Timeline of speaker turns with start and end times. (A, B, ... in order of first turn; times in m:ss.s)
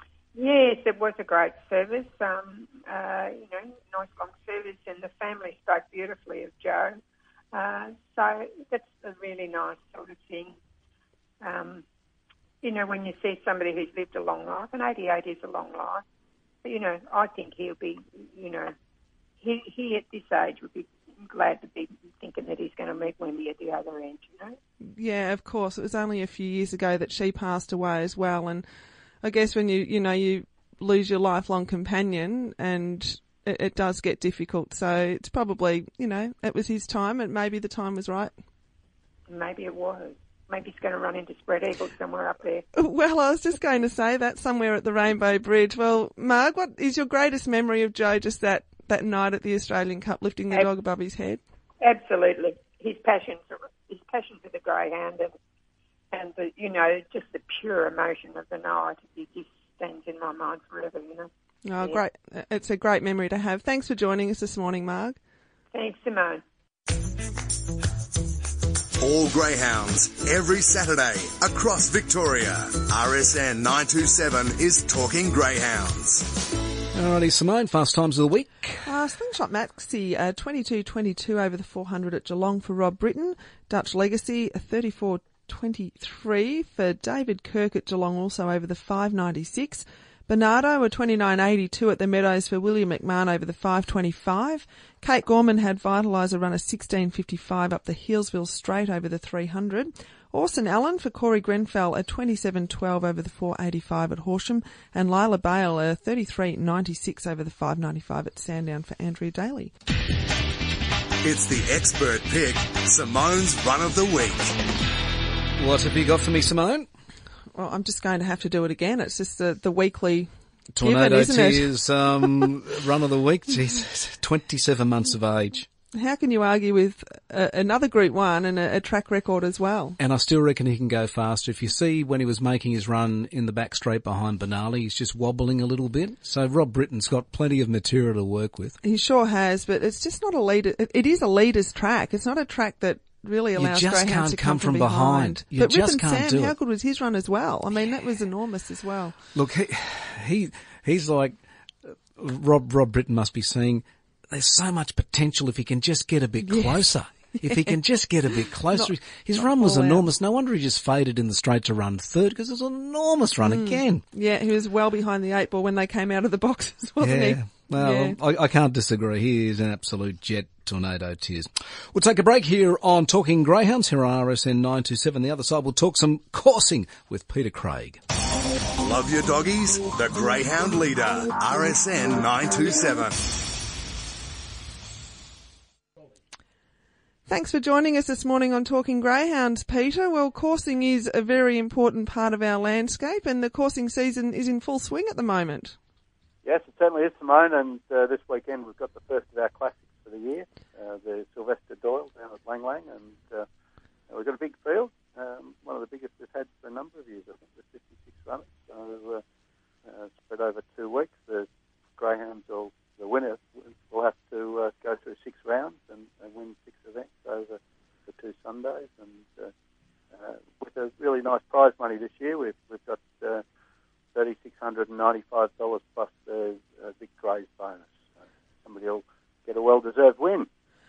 0:00.3-0:07.0 A
0:07.5-0:10.5 A
0:11.4-0:11.8 A
0:12.6-0:16.0 A
0:16.6-0:18.7 A
0:19.4-0:24.6 A
0:24.8-0:28.6 B
0:29.2-0:38.3 B
0:39.3-0:42.6 A
0:42.7-0:51.4 B
0:51.8-0:55.3 A
0:56.1-1:02.0 A
1:01.6-1:05.2 B
1:05.7-1:06.4 A
1:09.0-1:16.3 C
1:16.9-1:18.8 D
1:18.8-1:49.7 B
1:51.2-1:54.6 C
1:55.6-1:56.9 D
1:57.5-2:00.3 B
2:00.7-2:05.7 D
2:00.8-2:02.5 B
2:05.9-2:10.0 B
2:10.0-2:18.8 D
2:18.8-2:29.2 B
2:23.6-2:26.5 D
2:29.3-2:31.4 D
2:32.2-2:44.0 D
2:36.4-2:36.8 B
2:37.4-2:37.8 B
2:38.7-2:40.1 B
2:43.4-2:48.2 B
2:47.0-2:58.0 D
2:58.8-3:03.2 C
3:07.3-3:15.8 B
3:16.4-3:23.4 E
3:24.1-3:29.2 E
3:29.8-3:39.5 E
3:40.1-3:43.4 E
3:44.1-3:47.9 E
3:48.6-3:50.5 E